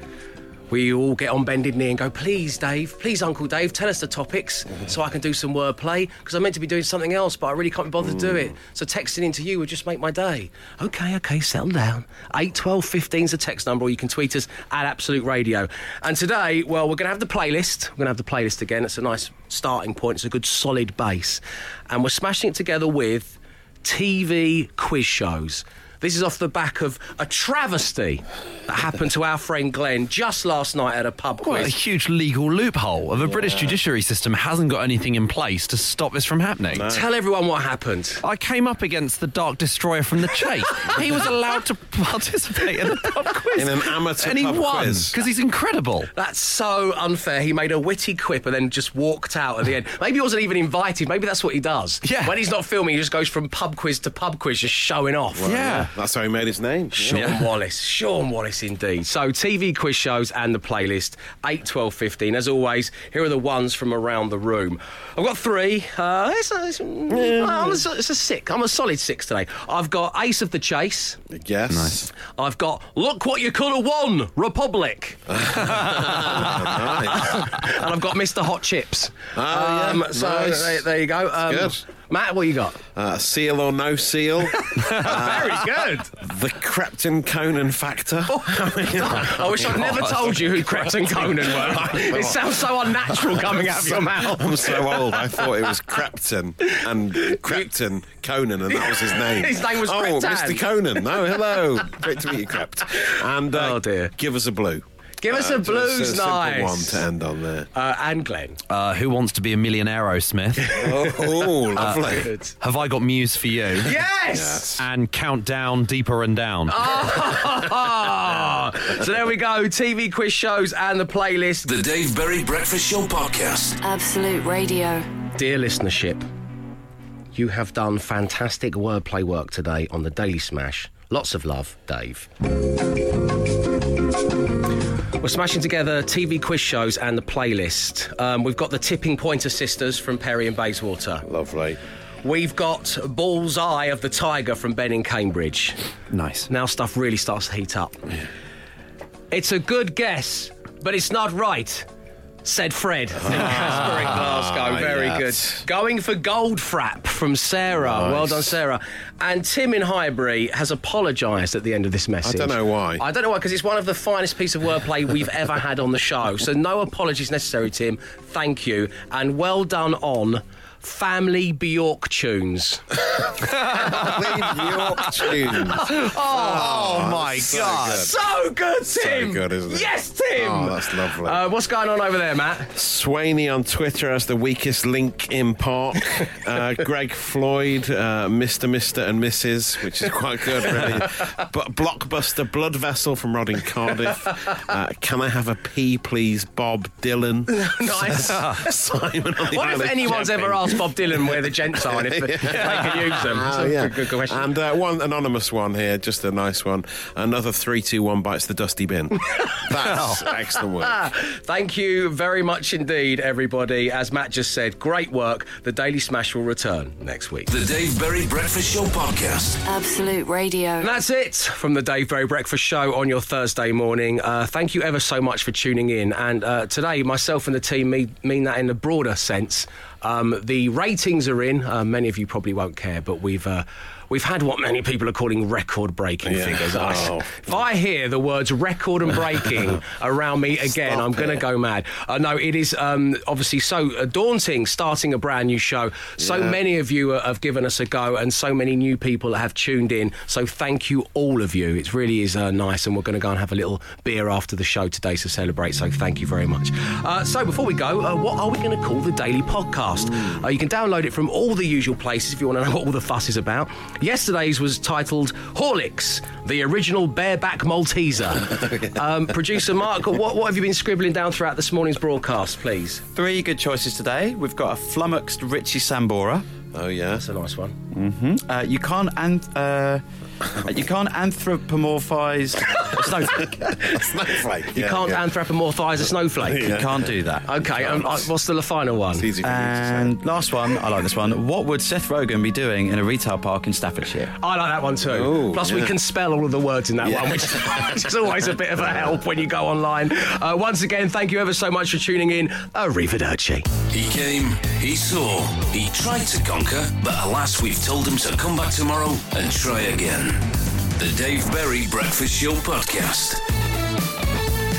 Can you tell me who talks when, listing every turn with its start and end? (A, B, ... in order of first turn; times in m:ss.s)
0:00.7-0:31.7 A
0:08.0-0:08.4 B
0:31.4-0:36.9 C
0:33.2-0:33.8 B
0:36.7-0:37.1 B
0:36.9-0:38.2 A
0:38.2-0:46.1 C
0:43.5-0:45.1 B
0:46.1-0:55.5 A
0:52.0-0:52.3 C
0:55.4-0:57.3 B
0:55.4-0:55.9 C
0:57.0-1:11.2 A
0:57.1-0:57.4 C
1:07.1-1:07.8 B
1:11.3-1:12.1 B
1:11.7-1:12.1 C
1:12.4-1:15.3 A
1:15.3-1:17.6 B
1:15.7-1:16.2 C
1:15.9-1:22.8 A
1:19.3-1:20.8 B
1:21.4-1:21.8 B
1:22.9-1:47.7 B
1:24.6-1:26.1 A
1:28.3-1:35.7 A
1:36.7-1:37.6 A
1:38.7-1:40.6 A
1:43.5-1:44.1 A
1:45.2-1:47.1 A
1:47.7-1:48.6 A
1:48.7-1:50.8 C
1:50.7-1:51.2 A
1:50.8-1:52.3 B
1:51.8-1:53.9 C
1:52.1-1:52.5 A
1:53.8-1:54.6 A
1:54.3-1:54.8 B
1:54.8-1:57.1 C
1:56.7-2:01.6 A
2:01.6-2:03.8 D
2:03.8-2:05.1 E
2:05.4-2:06.2 A
2:07.4-2:12.3 A
2:15.2-2:21.2 A
2:21.2-2:21.8 B
2:22.2-2:25.8 A
2:26.1-2:26.5 C
2:26.5-2:28.0 A
2:29.3-2:31.9 A
2:32.4-2:54.1 A
2:33.2-2:35.6 B
2:37.7-2:38.6 B
2:42.2-2:43.0 B
2:53.6-2:55.0 C
2:53.7-2:58.2 B
2:55.7-3:02.7 A
2:56.3-2:58.1 C
2:58.9-3:01.4 B
3:02.7-3:31.1 B
3:17.5-3:18.7 A
3:19.5-3:24.5 A
3:22.5-3:23.0 C
3:29.3-3:30.0 A
3:30.8-3:37.5 A
3:37.5-3:39.6 D
3:39.6-3:40.9 E
3:40.8-4:33.0 A
3:56.2-3:57.6 B
4:00.6-4:01.4 B
4:06.2-4:06.6 B
4:33.1-4:36.4 F
4:36.7-4:37.2 B
4:37.2-4:37.8 A
4:37.9-4:40.0 F
4:40.6-4:43.4 F
4:43.0-4:45.2 B
4:43.0-4:44.0 A
4:44.7-4:46.8 A
4:46.4-4:48.2 B
4:46.5-4:47.6 F
4:47.4-4:49.3 A
4:49.1-4:50.3 B
4:49.4-4:54.3 F
4:54.4-5:03.6 A
4:55.1-4:56.0 B
4:57.0-4:57.9 B
5:03.9-5:13.4 D